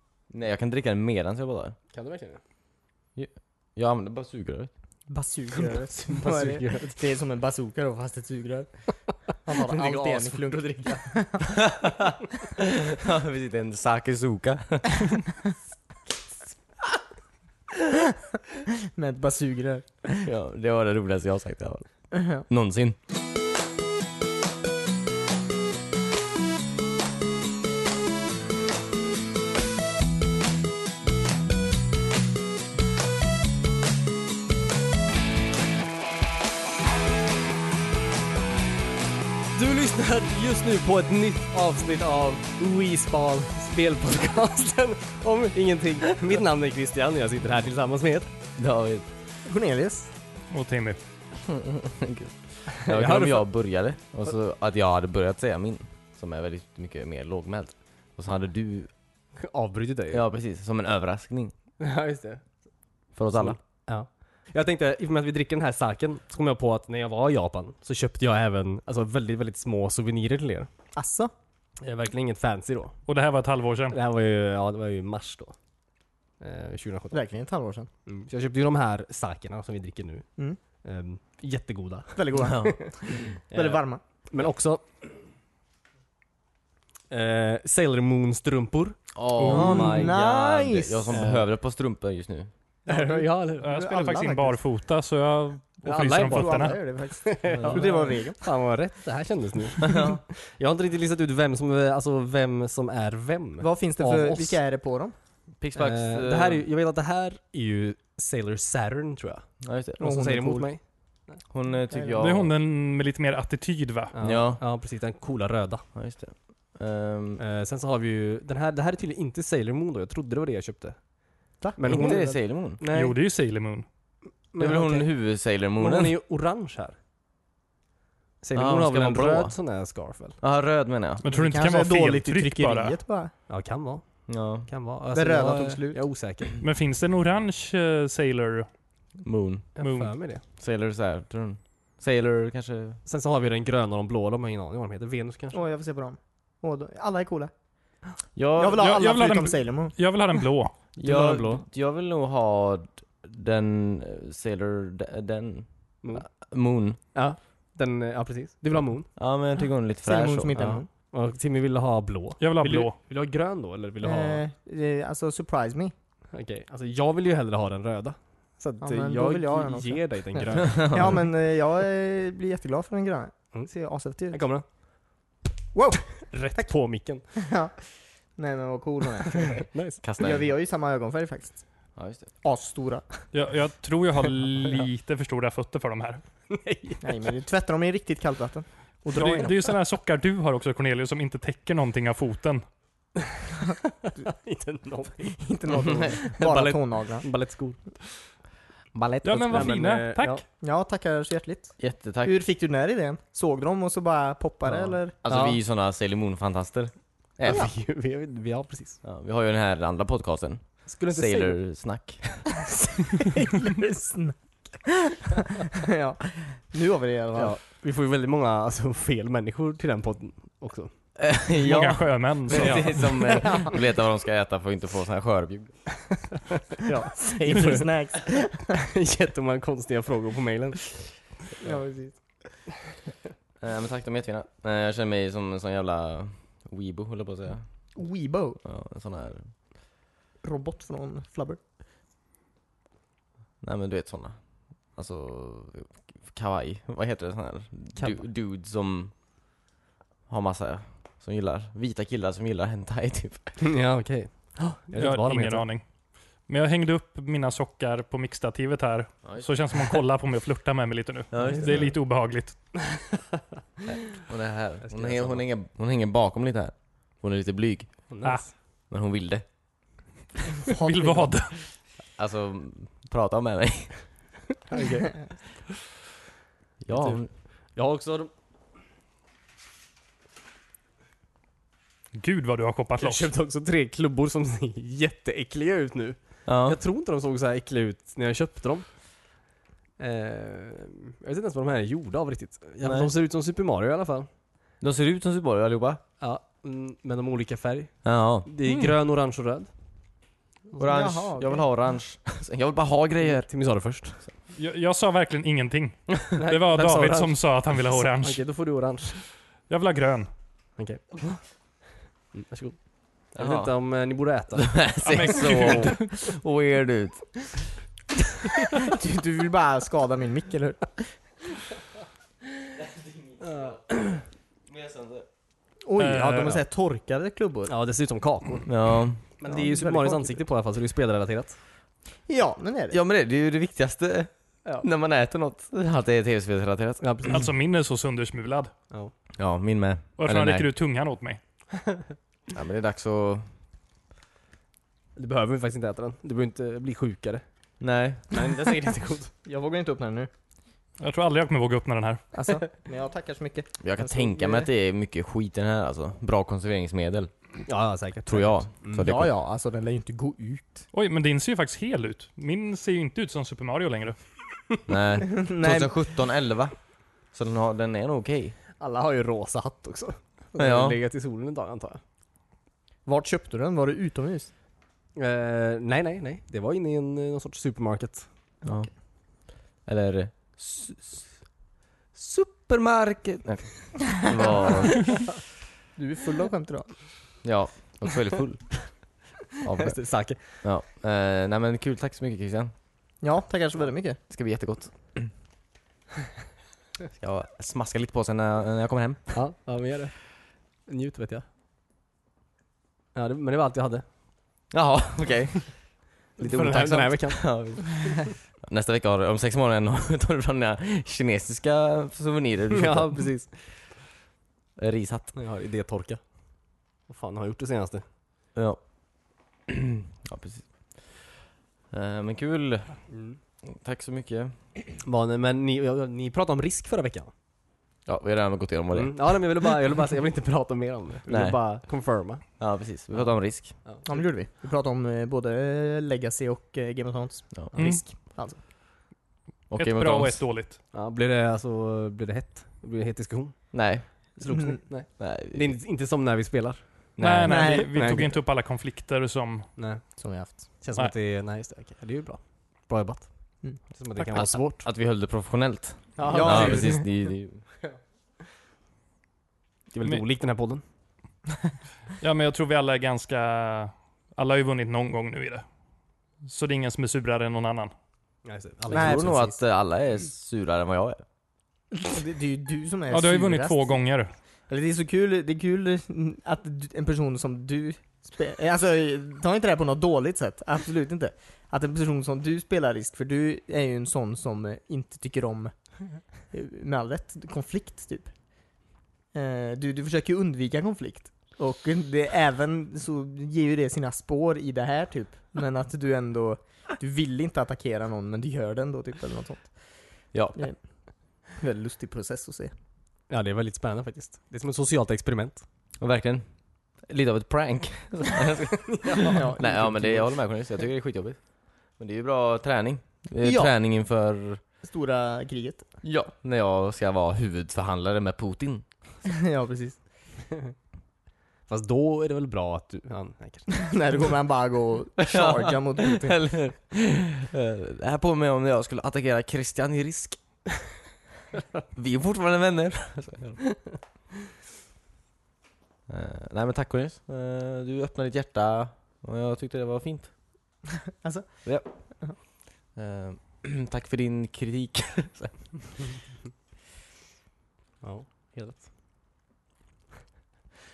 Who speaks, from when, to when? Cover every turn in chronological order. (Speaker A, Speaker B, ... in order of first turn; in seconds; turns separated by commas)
Speaker A: 0.3-1.8, Speaker B: 1.9-2.4, Speaker A: 3.1-4.7, Speaker C: 5.1-11.7, Speaker B: 5.5-7.0, Speaker B: 9.6-10.6, Speaker A: 11.6-12.1, Speaker A: 12.6-15.1, Speaker C: 18.9-20.3, Speaker A: 20.2-22.9, Speaker C: 22.1-22.4, Speaker B: 39.5-48.3, Speaker A: 48.5-49.1, Speaker C: 49.5-50.1, Speaker D: 50.5-51.0, Speaker A: 51.3-58.9, Speaker B: 52.8-53.5, Speaker B: 59.4-60.2, Speaker A: 60.1-61.5, Speaker B: 61.8-62.4, Speaker A: 63.2-63.6, Speaker B: 63.3-70.7, Speaker C: 70.9-71.3, Speaker B: 71.8-73.0, Speaker D: 73.1-74.0, Speaker B: 73.9-75.5, Speaker B: 76.4-77.2, Speaker C: 77.1-77.9, Speaker B: 78.1-80.3, Speaker B: 80.8-85.0, Speaker C: 82.2-84.0, Speaker A: 82.4-82.8, Speaker B: 87.1-90.0, Speaker A: 89.1-92.5, Speaker D: 89.4-90.0, Speaker C: 89.4-91.1, Speaker B: 91.1-91.4, Speaker B: 92.9-93.6, Speaker C: 92.9-94.6, Speaker D: 93.6-96.8, Speaker B: 95.8-104.6, Speaker C: 96.2-98.5, Speaker A: 97.5-97.9, Speaker A: 99.8-100.2, Speaker C: 103.6-105.1, Speaker A: 105.6-106.7, Speaker B: 105.8-110.8, Speaker A: 109.6-110.0, Speaker C: 110.0-110.7, Speaker A: 111.5-112.5, Speaker C: 111.9-112.2, Speaker D: 112.2-114.1, Speaker B: 114.1-115.9, Speaker A: 114.2-114.6, Speaker A: 115.9-117.4, Speaker B: 117.4-123.2, Speaker C: 121.6-122.4, Speaker A: 121.8-122.8, Speaker D: 122.9-123.8, Speaker B: 124.5-126.9, Speaker A: 124.6-126.2, Speaker B: 128.4-130.4, Speaker A: 128.5-129.6, Speaker A: 130.4-131.2, Speaker D: 131.2-133.0, Speaker C: 131.3-133.3, Speaker B: 133.5-136.6, Speaker A: 134.3-134.7, Speaker C: 135.1-136.0, Speaker D: 136.6-138.7, Speaker A: 139.2-139.7, Speaker B: 139.8-140.4, Speaker D: 139.8-140.1, Speaker A: 140.6-143.0, Speaker B: 143.1-145.6, Speaker C: 145.5-147.5, Speaker A: 148.3-148.8, Speaker C: 148.5-150.0, Speaker D: 148.8-150.7, Speaker A: 151.0-157.0, Speaker B: 151.0-151.6, Speaker B: 156.0-156.3, Speaker B: 157.1-159.1, Speaker A: 159.2-160.8, Speaker C: 160.0-160.9, Speaker B: 161.1-164.4, Speaker D: 162.4-163.0, Speaker C: 164.0-165.9, Speaker B: 166.3-171.2, Speaker C: 168.8-174.4, Speaker A: 170.8-171.1, Speaker B: 174.3-174.7, Speaker C: 175.7-176.7, Speaker B: 176.3-177.3, Speaker C: 177.3-177.8, Speaker C: 178.3-179.7, Speaker B: 179.4-180.2, Speaker A: 180.0-180.4, Speaker C: 180.2-181.7, Speaker A: 181.9-182.3, Speaker C: 182.4-183.3, Speaker D: 183.3-186.2, Speaker B: 186.5-187.3, Speaker C: 187.0-189.5, Speaker D: 189.1-192.7, Speaker B: 193.7-198.2, Speaker C: 195.3-197.2, Speaker C: 199.0-199.7, Speaker B: 199.0-200.4, Speaker D: 199.2-200.4, Speaker C: 200.6-205.2, Speaker A: 201.8-202.3, Speaker B: 204.7-205.6, Speaker A: 205.2-207.7, Speaker B: 207.4-209.0, Speaker A: 209.0-212.6, Speaker B: 210.8-211.6, Speaker C: 213.1-217.6, Speaker B: 217.3-220.9, Speaker A: 221.2-225.9, Speaker D: 221.6-223.1, Speaker B: 222.5-223.4, Speaker C: 223.2-223.8, Speaker B: 226.8-227.8, Speaker C: 226.9-228.7, Speaker B: 228.7-231.0, Speaker C: 231.6-232.5, Speaker A: 233.6-237.9, Speaker C: 238.0-238.6, Speaker A: 238.6-239.5, Speaker C: 240.4-241.6, Speaker A: 243.6-249.1, Speaker B: 248.0-248.2, Speaker A: 250.3-253.6, Speaker B: 253.6-255.7, Speaker D: 254.9-255.8, Speaker D: 256.4-262.6, Speaker A: 259.2-259.5, Speaker A: 261.3-261.9, Speaker A: 263.9-268.1, Speaker B: 264.9-265.4, Speaker B: 268.1-268.5, Speaker A: 268.9-269.4, Speaker C: 270.6-271.3, Speaker D: 270.7-271.6, Speaker A: 272.1-274.1, Speaker B: 274.7-275.3, Speaker A: 276.8-277.3, Speaker B: 276.9-278.3, Speaker D: 282.1-283.3, Speaker B: 283.0-288.9, Speaker A: 286.4-286.8, Speaker B: 290.0-294.3, Speaker A: 292.8-293.1, Speaker A: 294.8-296.0, Speaker B: 296.2-299.7, Speaker A: 298.1-298.5, Speaker D: 298.6-298.9, Speaker C: 300.8-301.6, Speaker A: 300.8-303.5, Speaker B: 303.2-304.2, Speaker D: 304.6-308.4, Speaker B: 306.4-309.2, Speaker D: 309.7-310.3, Speaker B: 310.8-311.5, Speaker B: 312.3-314.9, Speaker A: 313.4-313.7, Speaker A: 314.6-317.6, Speaker D: 315.1-316.1, Speaker C: 318.8-321.1, Speaker A: 322.8-323.8, Speaker B: 323.4-324.2, Speaker A: 324.7-325.2, Speaker C: 325.8-327.7, Speaker D: 326.0-326.6, Speaker B: 327.7-328.7, Speaker A: 328.6-329.2, Speaker B: 329.4-331.6, Speaker C: 329.4-330.4, Speaker C: 332.3-333.0, Speaker A: 332.9-337.1, Speaker B: 337.0-337.4, Speaker D: 337.3-338.7, Speaker A: 339.4-340.7, Speaker D: 340.2-341.4, Speaker A: 342.5-343.4, Speaker B: 345.1-347.4, Speaker A: 347.8-348.4, Speaker B: 348.3-349.3, Speaker C: 349.4-350.3, Speaker D: 351.0-352.2, Speaker C: 352.3-354.6, Speaker A: 353.8-357.3, Speaker B: 357.6-359.1, Speaker A: 358.3-359.3, Speaker C: 358.9-360.9, Speaker D: 360.9-364.2, Speaker A: 364.9-368.6, Speaker C: 365.2-365.9, Speaker B: 368.8-372.0, Speaker A: 370.6-371.0, Speaker C: 373.1-374.5, Speaker B: 375.1-378.3, Speaker C: 378.6-378.9, Speaker A: 378.6-381.4, Speaker A: 382.1-385.4, Speaker C: 384.4-385.3, Speaker C: 385.9-387.2, Speaker A: 387.4-392.7, Speaker B: 389.8-390.6, Speaker C: 393.2-394.2, Speaker A: 394.3-395.3, Speaker A: 397.2-399.4, Speaker B: 399.3-401.4, Speaker B: 403.1-404.0, Speaker A: 404.7-413.3, Speaker B: 406.4-408.0, Speaker B: 412.7-413.9, Speaker A: 414.8-415.4, Speaker B: 415.3-416.2, Speaker B: 417.1-418.0, Speaker A: 418.6-421.3, Speaker A: 421.9-423.1, Speaker B: 423.1-423.4, Speaker A: 423.6-424.6, Speaker B: 425.0-427.3, Speaker A: 428.1-429.5, Speaker B: 428.9-432.6, Speaker A: 431.3-431.6, Speaker A: 432.6-433.8, Speaker B: 433.8-434.1, Speaker C: 434.1-438.6, Speaker D: 437.8-438.0, Speaker A: 439.7-440.4, Speaker D: 439.8-440.8, Speaker B: 440.9-443.8, Speaker A: 443.7-445.7, Speaker B: 444.3-447.2, Speaker C: 444.5-444.8, Speaker A: 447.2-447.7, Speaker D: 447.2-449.7, Speaker C: 447.4-448.2, Speaker B: 447.7-448.4, Speaker B: 449.8-454.9, Speaker C: 450.2-450.6, Speaker C: 453.6-454.4, Speaker A: 454.3-457.6, Speaker B: 456.2-457.1, Speaker C: 456.2-457.0, Speaker B: 459.9-460.8, Speaker D: 462.2-465.6, Speaker D: 466.4-467.9, Speaker B: 468.4-469.3, Speaker C: 468.9-469.6, Speaker A: 468.9-471.2, Speaker C: 472.1-473.9, Speaker D: 473.1-474.3, Speaker C: 474.7-485.7, Speaker C: 486.5-488.4, Speaker C: 489.3-499.9, Speaker A: 500.3-500.6, Speaker C: 501.5-502.7, Speaker B: 503.3-505.6, Speaker A: 506.0-506.4, Speaker A: 507.0-514.6, Speaker B: 509.1-509.3, Speaker C: 509.1-510.3, Speaker C: 513.4-513.7, Speaker C: 514.8-516.0, Speaker A: 516.0-518.9, Speaker C: 519.2-520.0, Speaker B: 521.7-524.1, Speaker C: 523.7-526.5, Speaker A: 525.2-530.4, Speaker A: 531.9-533.6, Speaker A: 536.1-540.3, Speaker C: 541.2-542.3, Speaker A: 541.6-546.0, Speaker B: 548.0-548.9